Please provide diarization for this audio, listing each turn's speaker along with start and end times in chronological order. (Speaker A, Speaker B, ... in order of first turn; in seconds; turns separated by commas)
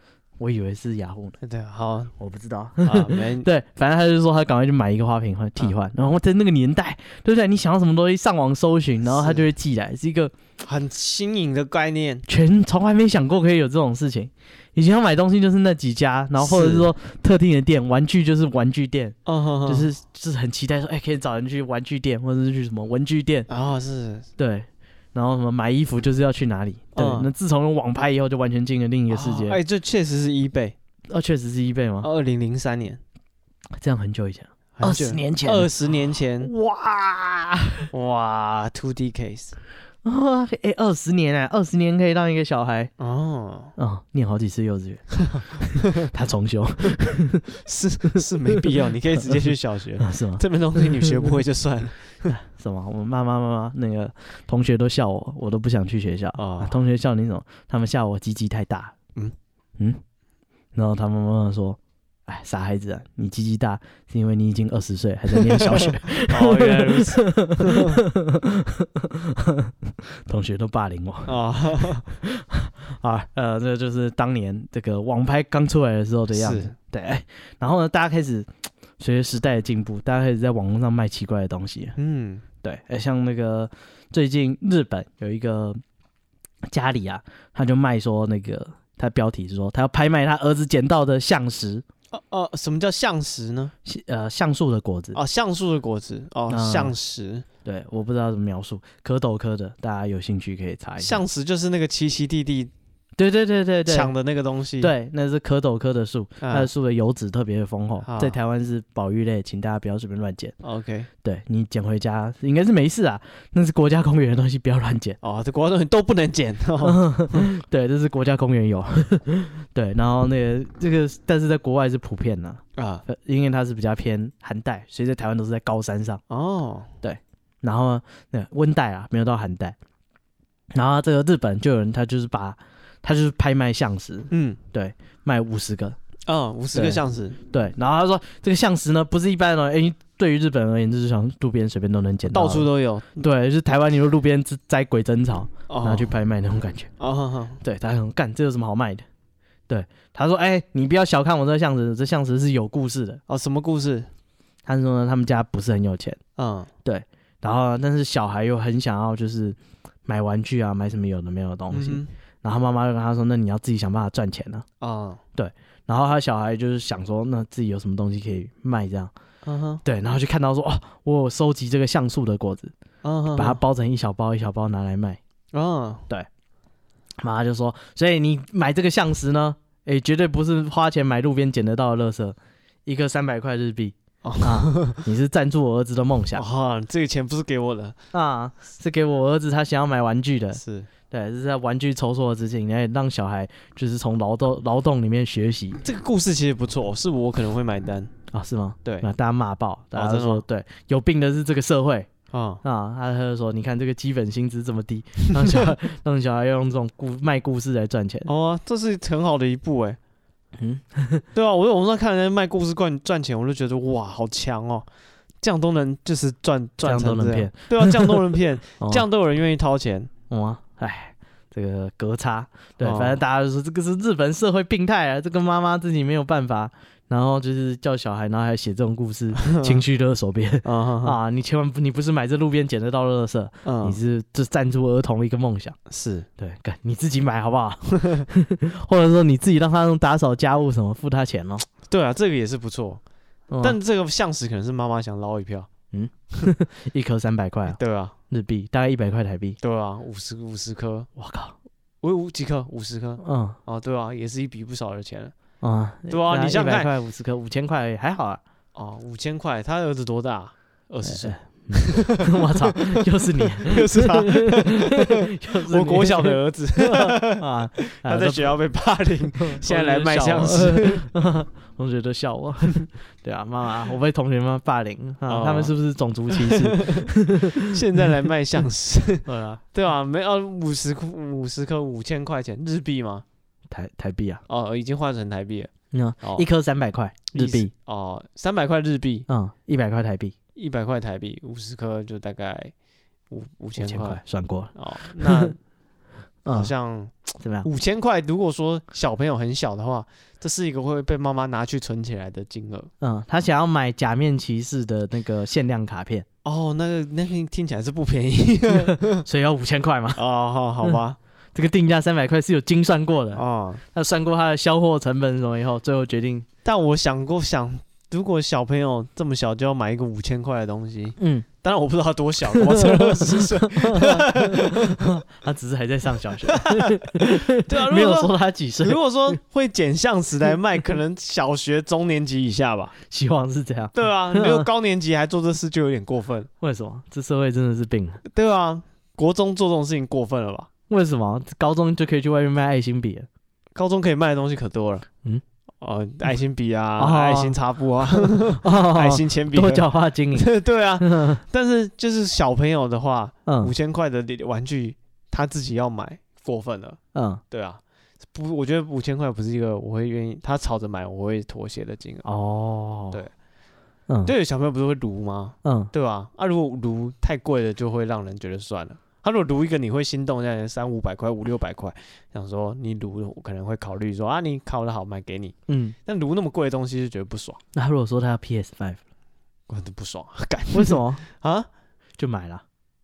Speaker A: 0.4-1.4, Speaker B: 1.4-2.1, Speaker A: 2.2-10.3, Speaker B: 2.8-3.5, Speaker B: 9.1-9.5, Speaker B: 10.6-12.2, Speaker A: 12.3-23.5, Speaker B: 16.4-16.9, Speaker B: 19.3-19.9, Speaker B: 23.5-24.3, Speaker A: 24.4-29.6, Speaker B: 26.9-27.3, Speaker B: 29.1-30.8, Speaker A: 31.1-32.1, Speaker B: 32.0-33.0, Speaker A: 33.8-35.7, Speaker B: 34.8-36.5, Speaker A: 36.4-37.9, Speaker B: 37.9-39.6, Speaker A: 40.0-42.9, Speaker B: 43.0-43.7, Speaker A: 43.8-47.5, Speaker B: 45.2-46.1, Speaker B: 47.6-52.3, Speaker A: 50.0-51.4, Speaker A: 52.3-59.0, Speaker B: 56.4-56.8, Speaker A: 60.7-71.3, Speaker B: 65.5-68.0, Speaker B: 71.3-72.0, Speaker A: 72.2-82.0, Speaker B: 76.3-76.7, Speaker B: 82.0-82.4, Speaker A: 82.6-85.8, Speaker A: 86.7-91.8, Speaker B: 92.1-93.7, Speaker A: 93.8-95.2, Speaker B: 95.2-97.5, Speaker A: 96.5-97.0, Speaker A: 97.7-101.2, Speaker B: 101.0-102.7, Speaker A: 103.2-104.1, Speaker B: 103.9-104.9, Speaker A: 104.8-110.5, Speaker B: 106.4-106.7, Speaker B: 108.0-108.4, Speaker B: 110.6-111.1, Speaker A: 111.2-115.2, Speaker B: 115.2-117.5, Speaker A: 116.8-126.2, Speaker B: 122.8-123.0, Speaker B: 126.3-126.9, Speaker A: 127.0-129.8, Speaker A: 130.7-136.0, Speaker B: 134.3-134.6, Speaker B: 136.3-137.4, Speaker A: 136.7-146.9, Speaker B: 142.3-143.3, Speaker B: 145.7-146.1, Speaker B: 147.0-147.6, Speaker A: 147.6-149.1, Speaker A: 149.7-153.2, Speaker B: 153.3-154.1, Speaker A: 154.7-156.2, Speaker B: 156.4-156.7, Speaker A: 156.8-164.7, Speaker B: 161.7-162.1, Speaker B: 164.8-165.2, Speaker A: 165.3-169.1, Speaker B: 169.4-169.8, Speaker A: 169.8-172.7, Speaker B: 173.0-173.6, Speaker A: 173.3-175.2, Speaker B: 175.5-176.1, Speaker A: 177.2-186.4, Speaker B: 184.2-185.0, Speaker B: 186.3-188.0, Speaker A: 188.1-195.8, Speaker B: 190.5-190.9, Speaker B: 195.8-198.1, Speaker A: 198.3-202.1, Speaker B: 199.9-200.4, Speaker B: 202.3-202.6, Speaker A: 202.6-208.3, Speaker B: 205.3-205.6, Speaker B: 208.3-210.0, Speaker A: 210.6-211.2, Speaker B: 211.3-214.9, Speaker B: 215.4-220.1, Speaker A: 216.8-218.2, Speaker A: 218.8-219.1, Speaker A: 220.3-235.8, Speaker B: 222.8-223.2, Speaker B: 229.4-229.8, Speaker B: 230.6-231.2, Speaker B: 233.7-234.0, Speaker B: 235.9-236.3, Speaker A: 236.4-241.7, Speaker B: 238.0-238.2, Speaker B: 241.9-243.0, Speaker A: 243.5-243.8, Speaker B: 243.6-245.7, Speaker A: 245.9-247.8, Speaker B: 247.7-248.2, Speaker A: 248.3-249.6, Speaker B: 249.6-251.1, Speaker A: 251.2-251.6, Speaker B: 252.0-255.3, Speaker A: 253.2-253.6, Speaker A: 255.6-258.4, Speaker B: 256.1-256.9, Speaker B: 258.8-271.1, Speaker A: 261.0-268.5, Speaker A: 269.4-278.0, Speaker B: 275.3-275.7, Speaker B: 276.3-283.2, Speaker A: 279.3-279.6, Speaker A: 283.7-284.4, Speaker B: 284.5-285.7, Speaker A: 285.9-287.7, Speaker B: 287.3-289.3, Speaker A: 289.3-290.4, Speaker B: 290.6-292.7, Speaker B: 293.3-294.2, Speaker A: 293.8-295.6, Speaker B: 294.8-295.6, Speaker A: 296.4-296.7, Speaker B: 296.5-302.9, Speaker A: 297.4-297.7, Speaker A: 303.0-306.3, Speaker B: 306.4-309.2, Speaker A: 308.7-310.2, Speaker B: 310.1-311.2, Speaker A: 311.6-316.5, Speaker B: 313.4-313.8, Speaker B: 316.6-325.0, Speaker A: 321.2-321.5, Speaker A: 322.5-329.4, Speaker B: 326.5-333.0, Speaker A: 333.1-334.7, Speaker B: 333.9-336.5, Speaker A: 336.6-338.2, Speaker B: 338.3-340.7, Speaker A: 340.9-343.3, Speaker B: 343.8-345.1, Speaker B: 345.8-357.0, Speaker A: 347.0-351.4, Speaker A: 353.5-353.7, Speaker A: 357.1-357.4, Speaker B: 357.5-357.8, Speaker B: 358.3-362.3, Speaker A: 362.2-363.2, Speaker A: 364.1-364.3, Speaker B: 364.2-377.6, Speaker A: 365.6-365.9, Speaker A: 375.7-376.0, Speaker A: 377.7-379.0, Speaker B: 379.7-381.7, Speaker A: 380.7-381.2, Speaker A: 382.2-382.6